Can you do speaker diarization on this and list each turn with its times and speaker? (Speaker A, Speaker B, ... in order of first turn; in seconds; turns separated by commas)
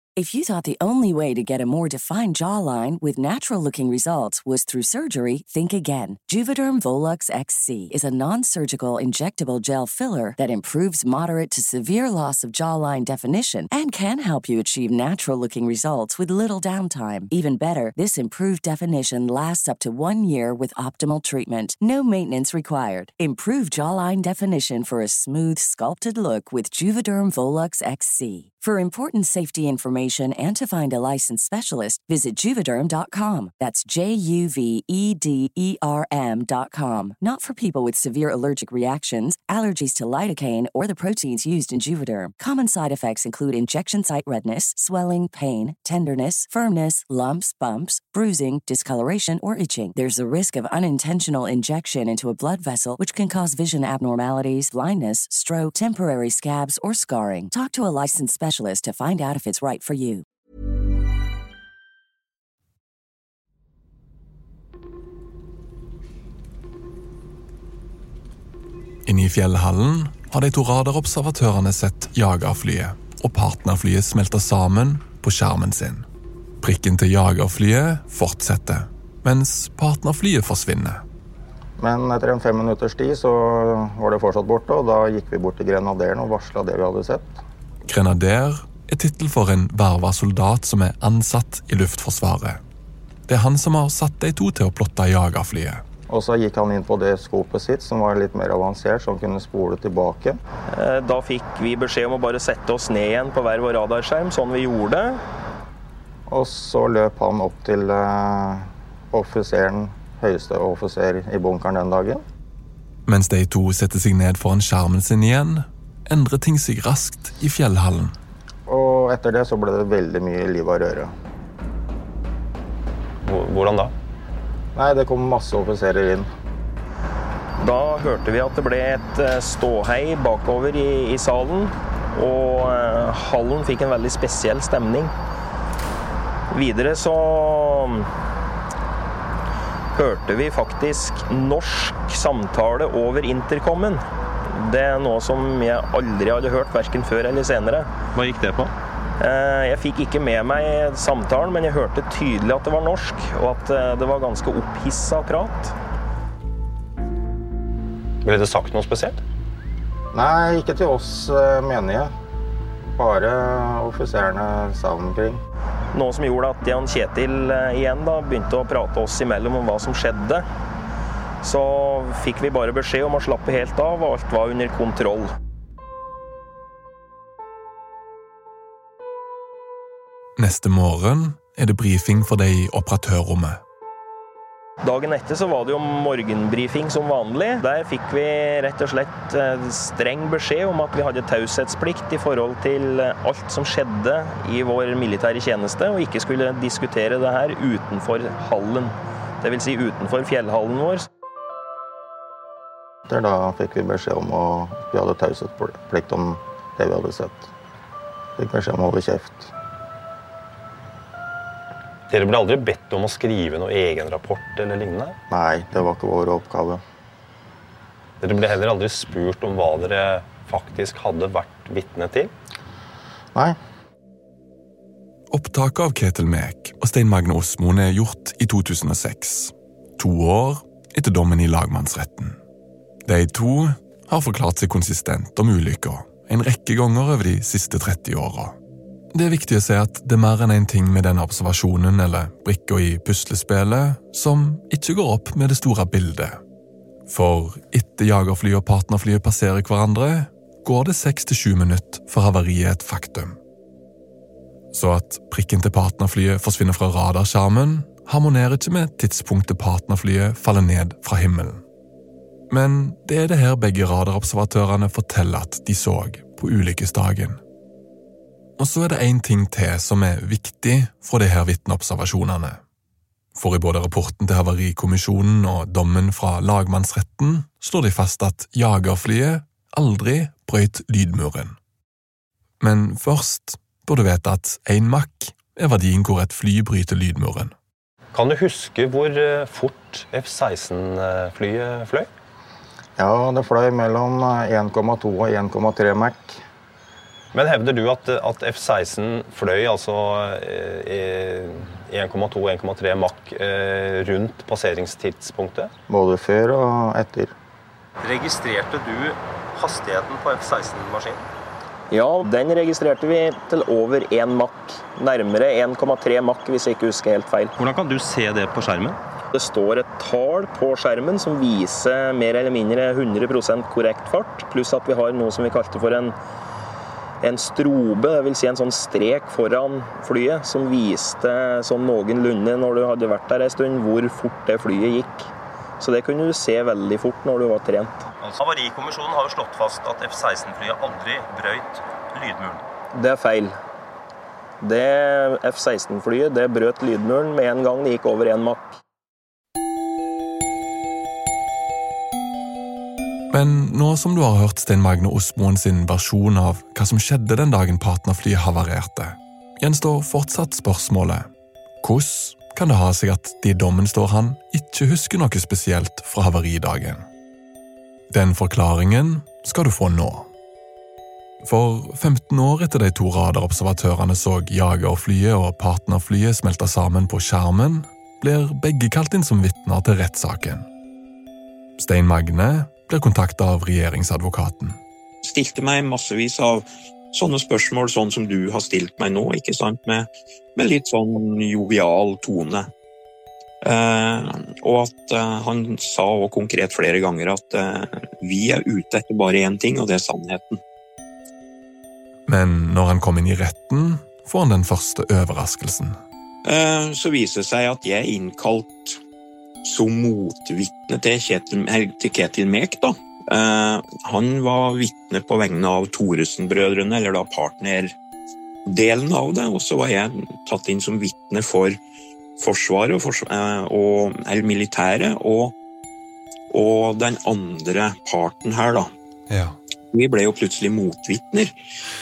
Speaker A: 0.2-60.2, Speaker B: 69.0-76.1, Speaker B: 76.6-81.0, Speaker C: 81.8-87.4, Speaker B: 87.9-92.6, Speaker B: 93.3-95.8, Speaker C: 96.1-100.4, Speaker D: 100.7-105.2, Speaker C: 106.3-112.2, Speaker B: 113.1-118.2, Speaker C: 118.7-121.1, Speaker E: 123.2-123.9, Speaker C: 124.8-126.3, Speaker D: 127.6-135.1, Speaker D: 136.5-138.1, Speaker D: 139.9-144.0, Speaker D: 144.5-147.9, Speaker E: 148.1-148.7, Speaker D: 149.2-155.7, Speaker E: 158.2-159.2, Speaker C: 160.1-162.1, Speaker C: 162.9-165.4, Speaker D: 165.9-170.4, Speaker D: 171.4-175.3, Speaker B: 180.4-183.6, Speaker D: 184.8-201.1, Speaker C: 203.1-207.5, Speaker C: 208.4-209.5, Speaker E: 212.1-215.2, Speaker C: 215.3-216.8, Speaker E: 218.2-222.3, Speaker B: 225.3-232.4, Speaker B: 233.1-238.6, Speaker B: 239.1-246.4, Speaker B: 247.1-253.4, Speaker B: 254.7-261.6, Speaker B: 262.5-267.4, Speaker B: 268.6-272.6, Speaker B: 273.4-281.6, Speaker B: 282.6-287.5, Speaker E: 288.1-292.1, Speaker C: 293.0-296.4, Speaker E: 297.3-305.7, Speaker C: 305.9-307.3, Speaker E: 308.0-311.3, Speaker D: 311.9-317.5, Speaker E: 317.6-319.0, Speaker D: 319.3-326.1, Speaker D: 327.2-335.3, Speaker D: 335.8-338.0, Speaker E: 338.1-342.6, Speaker D: 342.9-343.6, Speaker D: 344.6-348.8, Speaker B: 353.3-361.3, Speaker B: 361.8-367.1, Speaker B: 368.1-370.3, Speaker B: 371.4-380.7, Speaker B: 381.8-384.8, Speaker F: 385.2-392.7, Speaker F: 393.6-400.6, Speaker B: 402.3-406.0, Speaker F: 406.4-409.0, Speaker F: 409.6-417.9, Speaker F: 418.7-421.8, Speaker F: 422.4-425.6, Speaker F: 426.5-428.9, Speaker B: 429.3-429.6, Speaker F: 429.9-431.5